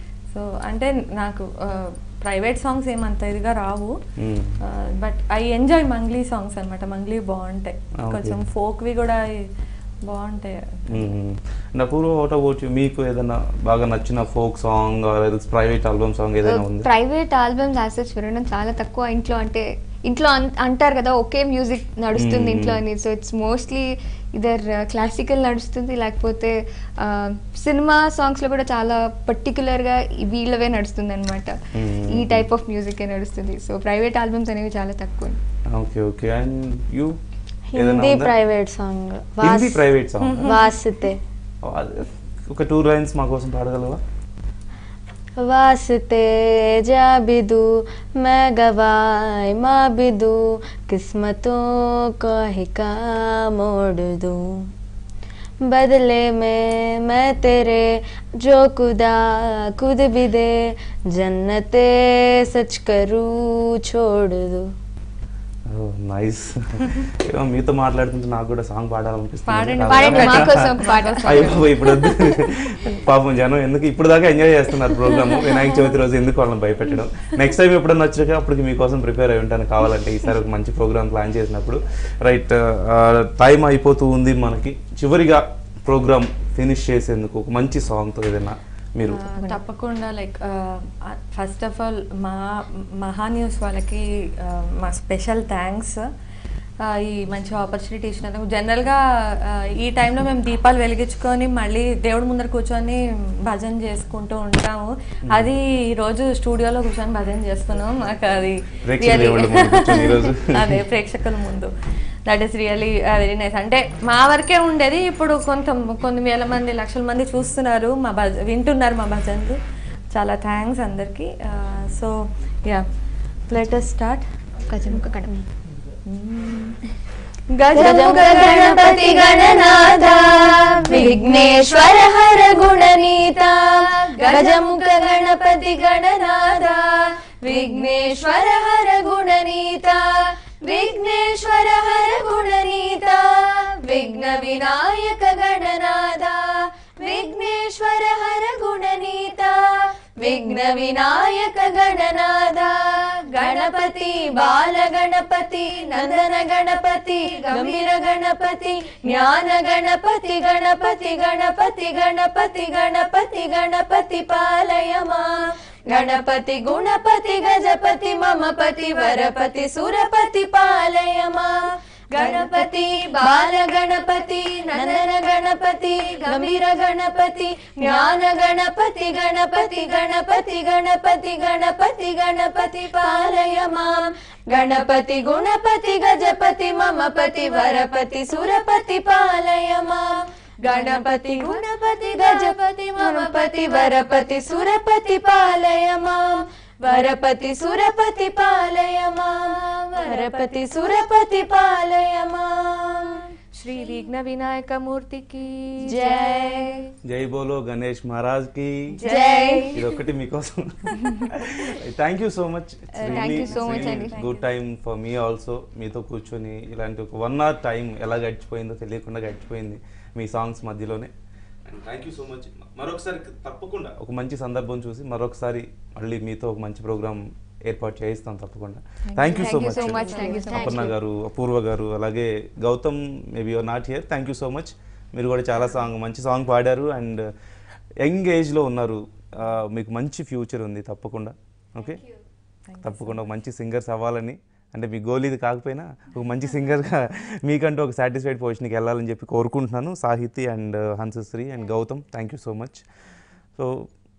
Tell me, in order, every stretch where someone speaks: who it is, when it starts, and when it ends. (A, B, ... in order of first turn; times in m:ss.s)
0:00.3-0:03.9 A
0:04.2-0:04.6 B
0:04.8-0:09.3 A
0:08.0-0:08.4 B
0:10.1-0:11.0 A
0:10.9-0:16.9 B
0:16.4-0:35.4 C
0:22.2-0:22.8 B
0:31.8-0:32.5 B
0:35.7-0:37.2 B
0:37.7-0:39.8 D
0:37.8-0:38.3 B
0:39.4-0:40.5 B
0:40.2-0:40.7 A
0:40.4-0:41.2 D
0:41.6-0:44.0 B
0:45.4-0:54.4 D
0:55.7-1:04.7 D
1:05.7-1:29.3 B
1:09.5-1:12.2 A
1:09.9-1:12.1 C
1:15.1-1:15.7 A
1:29.1-1:36.0 A
1:36.8-1:51.7 A
1:45.3-1:45.5 B
1:48.9-1:50.8 B
1:52.3-1:59.6 A
2:00.1-2:02.8 A
2:03.5-2:04.3 A
2:04.7-2:05.3 C
2:06.1-2:06.8 A
2:07.5-2:09.5 A
2:07.8-3:23.2 D
2:10.9-2:11.2 A
3:10.7-3:11.6 A
3:23.5-3:26.5 A
3:25.8-3:26.9 D
3:27.0-3:29.0 B
3:29.0-3:29.8 A
3:29.0-3:29.8 D
3:29.7-3:41.1 B
3:33.0-3:34.2 C
3:33.0-3:34.4 A
3:41.7-3:57.3 B
3:49.2-3:51.0 C
3:49.3-3:50.6 A
3:58.0-4:02.1 B
4:02.7-4:03.3 A
4:02.8-4:12.8 B
4:13.6-4:13.9 B